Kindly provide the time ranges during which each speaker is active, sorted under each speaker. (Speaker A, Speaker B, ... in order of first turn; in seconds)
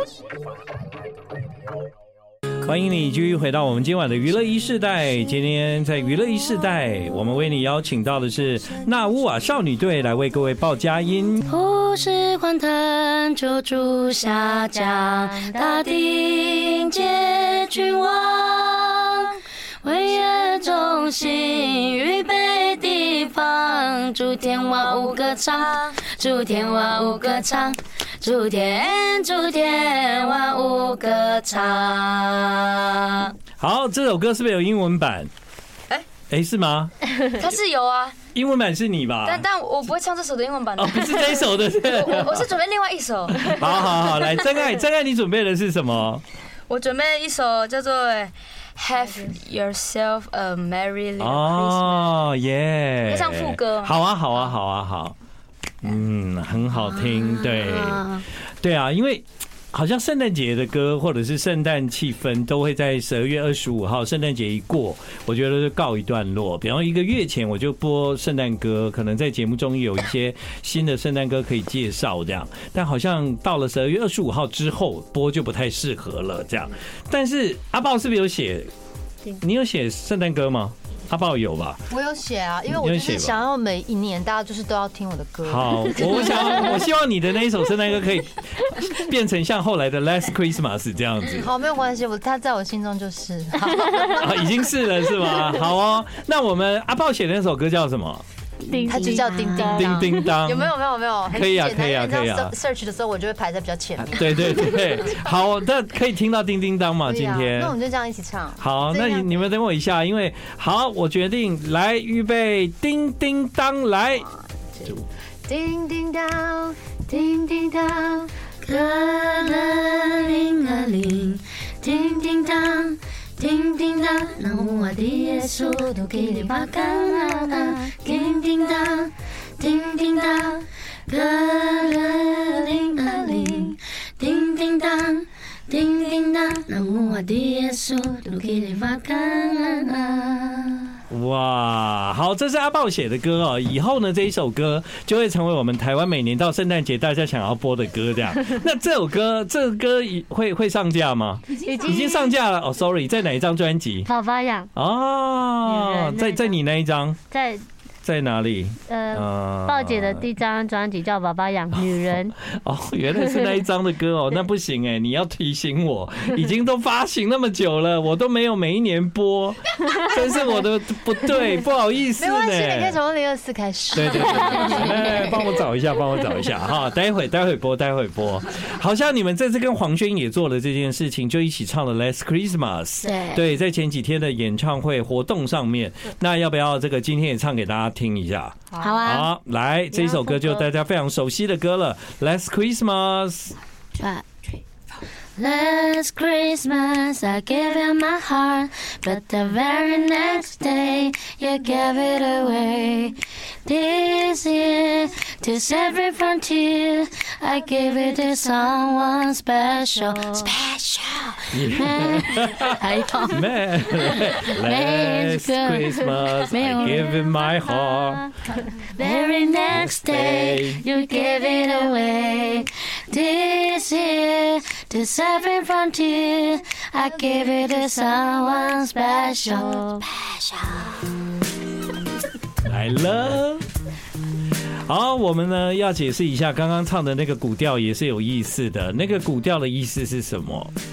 Speaker A: 2.6-11.4, 33.6-35.3, 36.3-36.9, 38.3-39.4, 40.8-42.4, 43.4-46.2, 51.2-55.1, 55.8-78.7, 79.4-81.8, 82.8-83.4, 85.4-91.5, 94.0-98.2, 99.7-100.7, 101.3-102.5, 104.0-107.8, 108.6-114.3, 141.1-154.1, 154.7-157.2, 158.0-160.3, 161.8-173.0, 173.9-193.5, 211.5-218.3, 219.7-220.8, 232.6-233.6, 234.8-240.7
Speaker B: 11.5-33.3, 56.8-58.2, 98.8-99.9, 118.6-141.0, 183.0-183.4, 188.8-189.3, 193.9-194.5, 195.4-213.5, 214.0-217.1, 218.9-231.1
Speaker C: 15.2-15.8, 98.7-100.4, 151.5-152.3, 154.0-154.7, 155.6-156.6, 157.3-157.7, 158.9-162.4, 163.2-163.6, 188.7-189.0, 189.9-190.7, 217.0-219.6, 221.0-221.9, 229.5-230.0
Speaker D: 24.6-27.4, 30.3-30.8, 37.3-38.2, 39.2-44.6, 46.7-52.3, 53.0-54.5
Speaker E: 81.9-86.7, 91.3-94.5, 98.8-105.2, 107.0-109.5, 115.5-118.3, 172.2-175.5